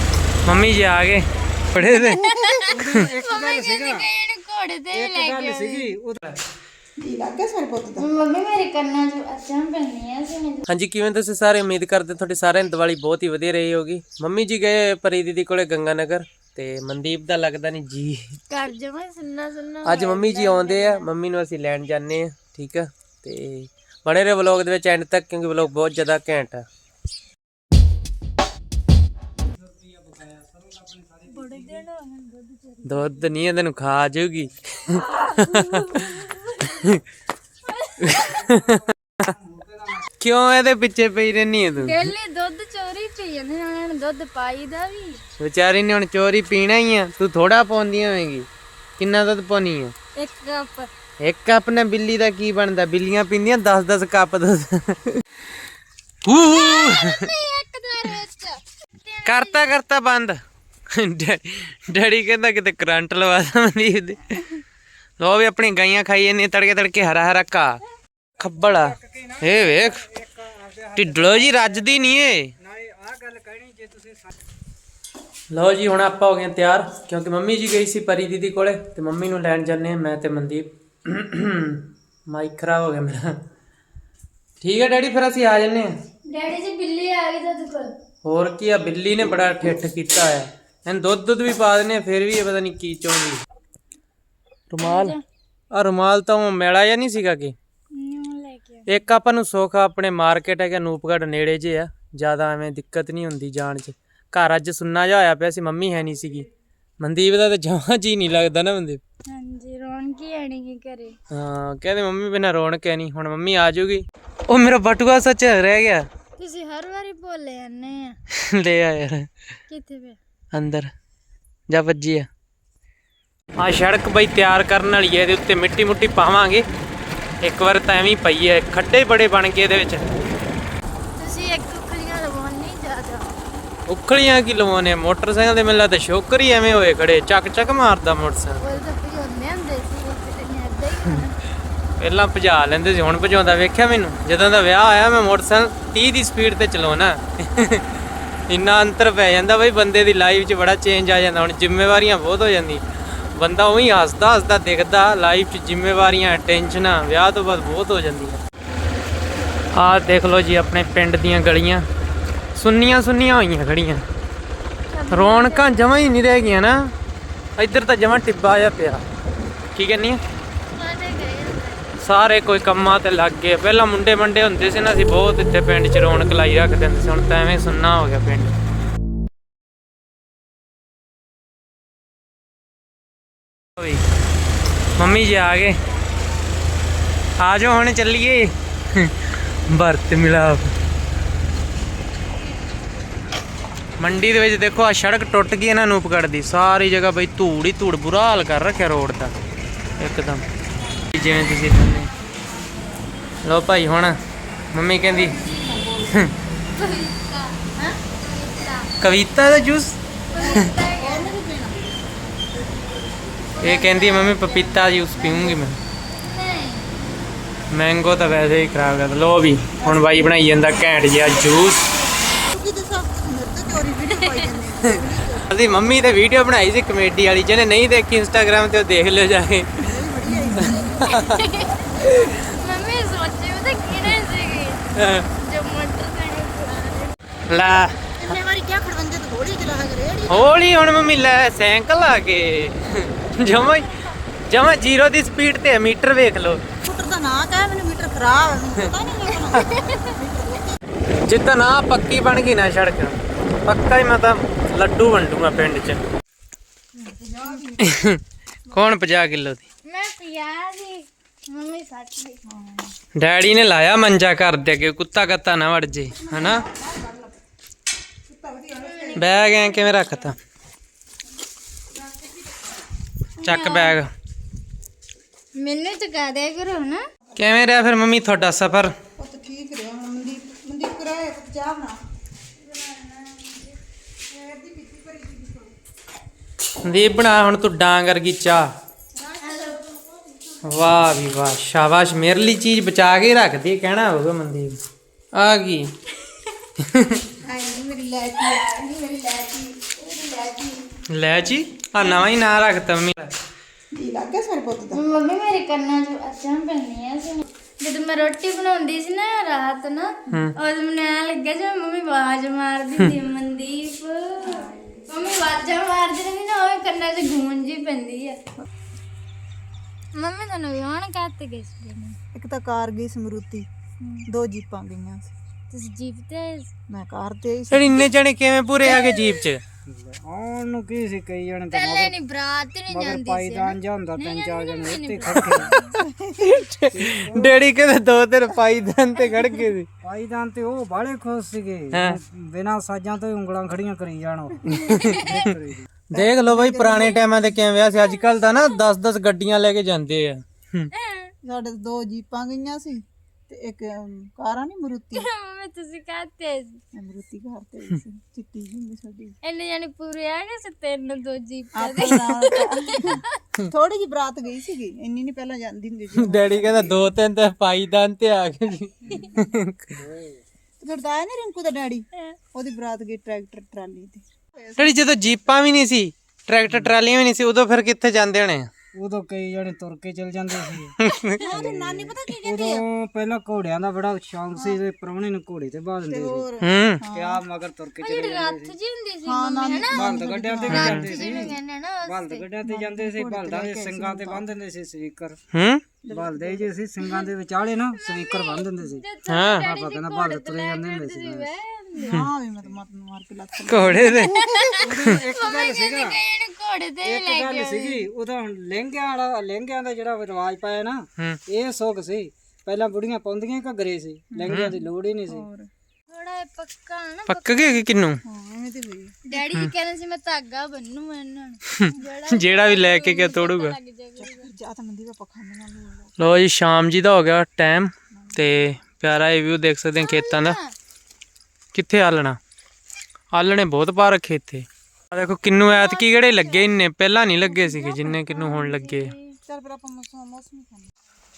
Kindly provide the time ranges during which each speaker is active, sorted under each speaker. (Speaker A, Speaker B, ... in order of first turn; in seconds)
Speaker A: 0.4-2.3, 2.8-3.1, 10.7-18.4, 19.8-26.6, 32.8-37.0, 38.0-39.3, 40.2-42.1, 45.4-48.5, 49.0-49.9, 51.2-55.2, 56.2-57.3, 59.2-60.4, 60.9-64.4, 65.2-67.8, 68.4-70.0, 71.0-72.5, 75.5-83.4, 84.6-85.9, 88.2-93.4, 94.7-95.2, 95.7-97.5, 98.9-106.5, 107.0-109.0, 111.3-116.0, 118.3-119.3, 120.5-120.9, 121.7-122.3, 123.6-126.6, 127.4-130.1, 133.8-138.6, 142.0-147.9, 148.5-152.8, 153.3-158.4, 159.7-161.8, 162.5-164.0, 165.1-166.9, 167.6-169.0, 169.7-170.2, 172.0-178.5, 183.8-184.0, 184.9-185.8, 187.4-190.7, 194.0-199.3, 200.0-200.4, 201.1-202.1, 203.4-204.2, 204.7-205.4, 206.1-206.3, 209.0-210.7, 213.6-215.8, 217.7-221.9, 224.8-229.8, 230.5-231.4, 231.9-232.4, 234.9-235.3, 237.5-238.1, 240.3-243.9, 244.5-246.6, 251.2-256.0, 257.8-258.2, 258.7-259.6, 263.1-266.6, 269.1-270.4, 273.4-274.1, 277.4-278.9, 286.8-288.7, 290.6-294.8, 295.3-295.9, 296.8-297.2, 301.1-303.3, 310.3-310.6, 327.7-329.6, 336.4-339.9, 341.9-342.2, 344.7-345.5, 346.1-350.9, 366.2-370.0, 374.8-378.7, 381.0-381.4, 386.6-387.0, 390.7-391.0, 395.5-395.8, 399.3-399.6, 403.7-404.3, 414.5-414.7, 417.3-418.2, 419.4-419.7, 421.7-423.8, 426.2-430.6, 431.7-432.4, 433.3-439.1
Speaker B: 1.9-5.9, 8.0-10.6, 18.5-21.1, 31.3-33.3, 35.2-36.9, 37.7-38.4, 41.8-45.2, 50.1-50.9, 56.5-59.7, 86.3-87.9, 94.8-95.2, 97.9-98.9, 109.3-111.2, 116.4-118.2, 119.7-120.2, 131.2-133.4, 138.6-141.4, 164.9-165.8, 170.7-171.9, 206.7-207.6, 208.2-208.9, 210.3-211.3, 213.6-216.9, 224.2-224.5, 231.2-237.1, 259.9-262.4, 268.8-270.2, 273.4-274.0, 275.5-277.0, 282.6-283.8, 289.4-289.8, 298.3-300.9, 304.9-318.4, 320.1-322.2, 324.0-324.2, 325.7-326.7, 328.8-329.4, 331.7-335.9, 344.9-345.4, 350.9-351.3, 355.1-356.8, 359.4-363.4, 388.0-390.1, 390.7-392.5, 397.0-397.3, 397.9-402.1, 404.2-408.1, 416.1-417.9, 419.2-424.5, 430.0-430.7, 435.6-436.7, 437.4-439.3
Speaker C: 2.6-4.1, 4.9-6.2, 29.4-31.8, 38.3-40.1, 68.5-72.1, 72.6-74.3, 329.9-332.1, 332.9-335.7, 336.9-337.6, 340.0-345.9, 370.0-370.4, 376.7-376.9, 378.9-380.9, 381.4-386.5, 387.1-388.7, 389.9-395.4, 396.1-399.0, 399.6-401.5, 404.8-406.2, 407.0-415.4
Speaker D: 7.0-8.1, 205.1-206.1, 210.4-212.0, 219.8-220.4, 222.4-225.5, 229.8-231.2, 238.2-240.5, 246.8-250.8, 257.0-258.0, 262.5-262.9, 266.1-267.4, 268.3-269.3, 279.2-282.0, 284.3-285.7, 289.1-290.4, 297.4-298.7, 303.9-305.0, 322.3-323.7, 324.3-325.3, 326.9-328.1, 335.7-336.6, 346.1-347.2, 351.4-355.3, 356.9-359.4, 361.7-367.0, 370.8-375.0, 381.5-382.8, 386.1-387.4, 389.2-391.5, 392.6-394.5, 396.0-396.7, 402.0-404.7, 414.3-415.7, 418.2-419.1, 424.2-426.1, 428.1-428.6, 439.4-440.9